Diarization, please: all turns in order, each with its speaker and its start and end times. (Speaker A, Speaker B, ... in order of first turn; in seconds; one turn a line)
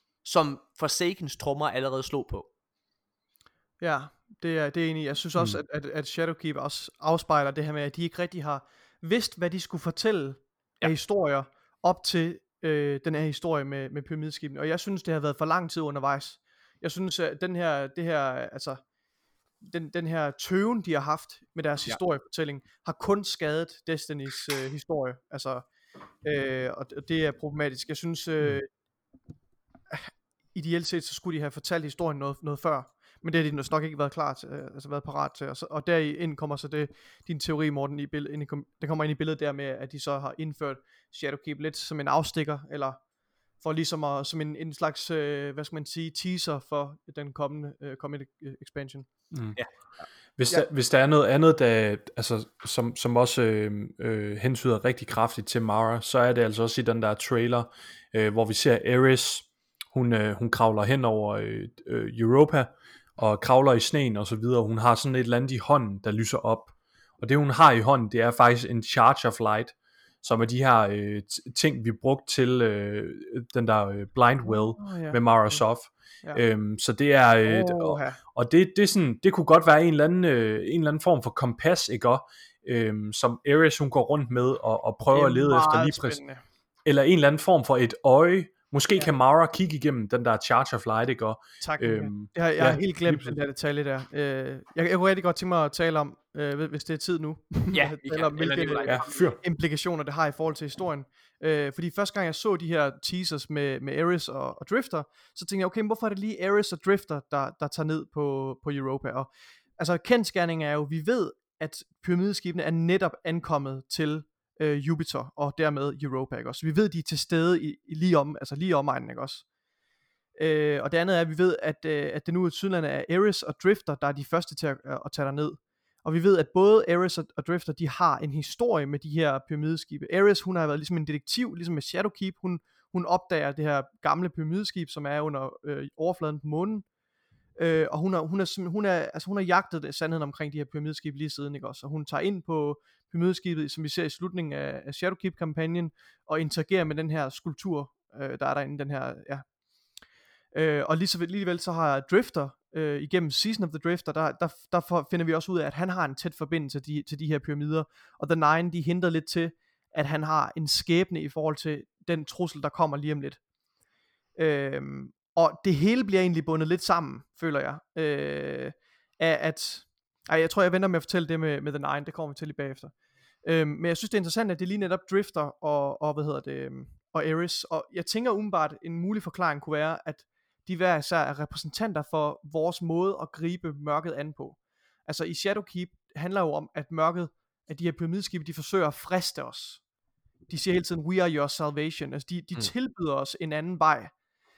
Speaker A: 0.2-2.5
Speaker B: 3.8-18.8
Speaker B: 19.6-25.6
Speaker B: 26.2-28.7
Speaker B: 29.9-43.0
Speaker B: 43.6-49.1
Speaker C: 49.3-49.6
Speaker C: 50.4-86.2
Speaker B: 74.4-75.6
Speaker B: 77.4-78.2
Speaker B: 85.1-86.4
Speaker C: 86.8-93.4
Speaker B: 91.6-119.5
Speaker A: 97.7-99.0
Speaker C: 98.9-99.4
Speaker B: 120.4-136.9
Speaker B: 137.6-149.5
Speaker B: 150.5-163.4
Speaker B: 164.4-189.8
Speaker B: 190.5-194.1